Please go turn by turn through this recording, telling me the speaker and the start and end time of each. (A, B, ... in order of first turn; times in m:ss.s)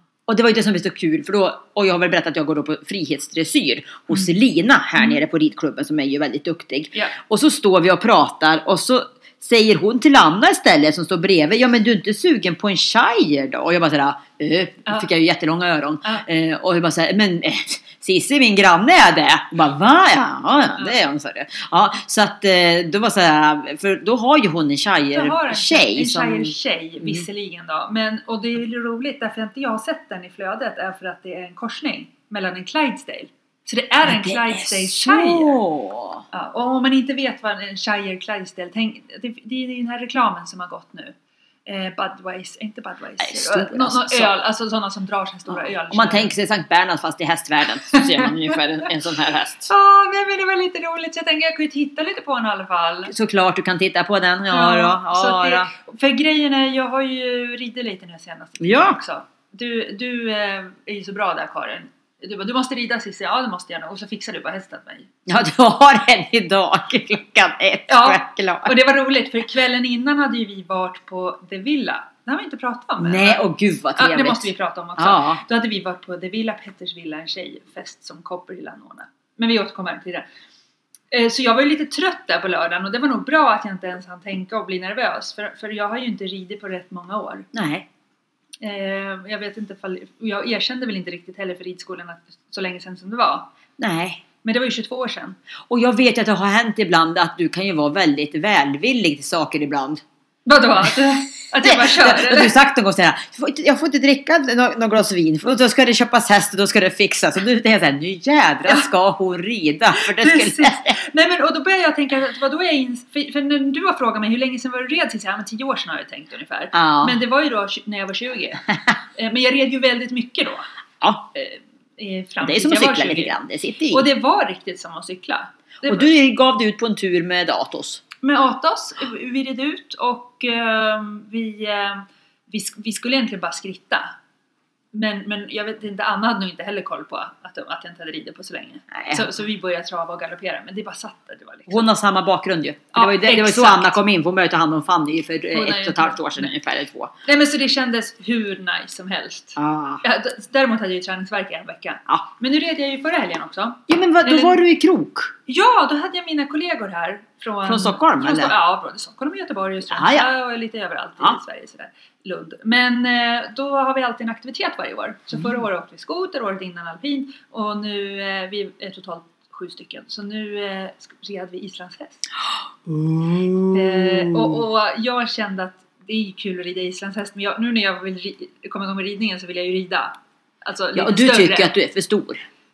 0:00.3-0:27.2 A
0:25.1-0:35.6 B
0:34.0-0:36.2 A
0:36.3-0:46.3 B
0:43.2-0:44.3 A
0:45.5-0:49.7 A
0:49.7-0:53.1 B
0:53.1-0:55.7 A
0:54.5-1:05.1 B
0:58.6-0:59.0 A
1:05.3-1:08.8 A
1:07.9-1:13.4 B
1:13.0-1:15.4 A
1:14.0-1:20.3 B
1:21.1-1:27.5 B
1:27.5-1:27.9 A
1:28.6-1:33.5 B
1:33.8-1:34.2 A
1:34.4-1:35.4 B
1:35.7-1:40.0 A
1:40.5-1:42.6 B
1:41.6-1:51.0 A
1:50.0-2:00.7 B
1:56.7-1:57.2 A
2:01.4-2:03.4 B
2:02.4-2:04.1 A
2:03.9-2:06.1 B
2:05.9-2:08.0 A
2:08.2-2:14.1 B
2:14.9-2:21.9 B
2:18.9-2:19.3 A
2:21.7-2:27.1 A
2:22.9-2:24.0 B
2:25.5-2:26.5 B
2:27.2-2:34.6 B
2:29.6-2:30.0 A
2:33.9-2:35.3 A
2:35.5-2:52.2 B
2:37.6-2:38.6 A
2:39.9-2:40.3 A
2:52.9-2:54.6 A
2:53.7-3:01.7 B
3:00.9-3:02.4 A